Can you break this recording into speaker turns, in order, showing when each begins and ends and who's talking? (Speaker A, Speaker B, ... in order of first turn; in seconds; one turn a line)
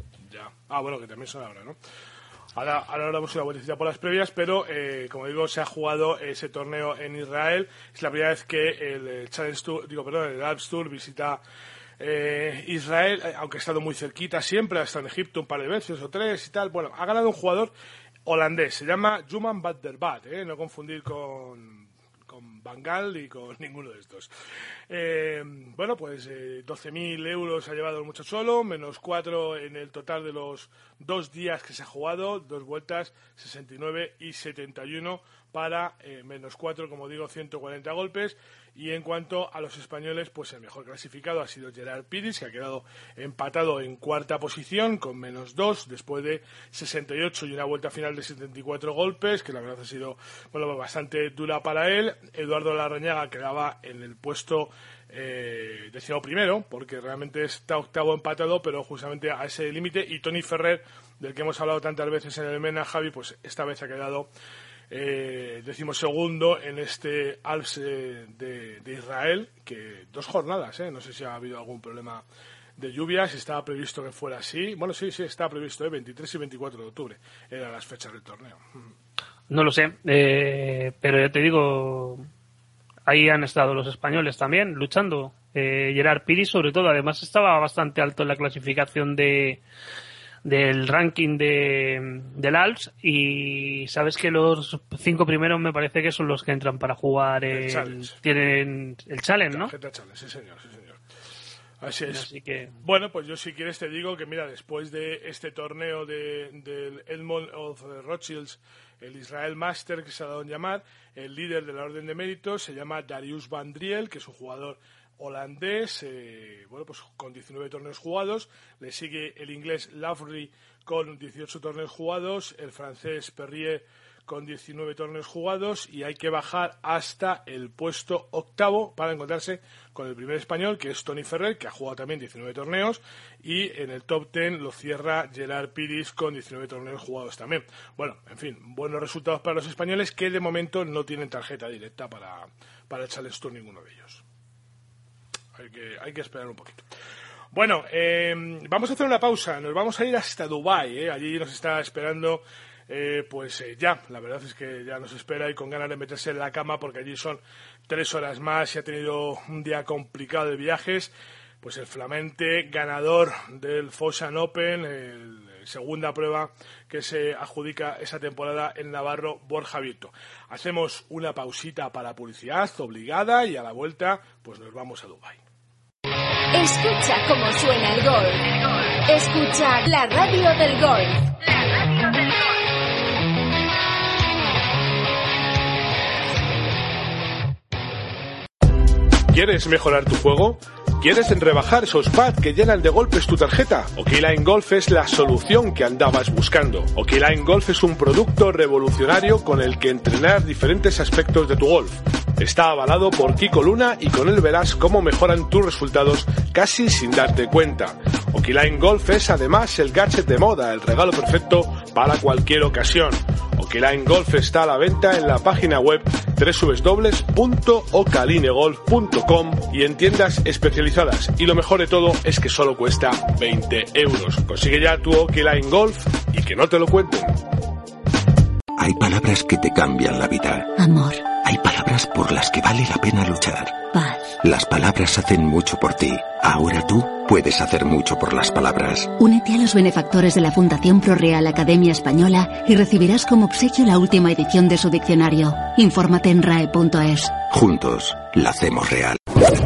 Speaker A: 0.3-1.8
Speaker A: 2.5-11.4
Speaker A: 12.0-17.7
Speaker A: 18.3-24.3
Speaker A: 24.9-64.3
Speaker A: 64.9-72.2
Speaker A: 72.8-78.9
Speaker B: 79.5-82.3
Speaker B: 83.1-89.6
Speaker B: 90.5-99.7
Speaker A: 97.5-98.2
Speaker A: 99.5-101.0
Speaker A: 101.8-102.3
Speaker B: 102.1-102.8
Speaker A: 102.8-144.2
Speaker A: 145.6-146.8
Speaker A: 147.5-161.1
Speaker A: 161.6-175.4
Speaker C: 176.5-178.5
Speaker C: 179.1-181.3
Speaker A: 189.3-227.4
Speaker D: 228.8-230.7
Speaker E: 230.8-231.2
Speaker D: 231.3-233.8
Speaker E: 233.9-234.3
Speaker D: 234.4-239.2
Speaker E: 239.2-247.4
Speaker D: 247.4-249.2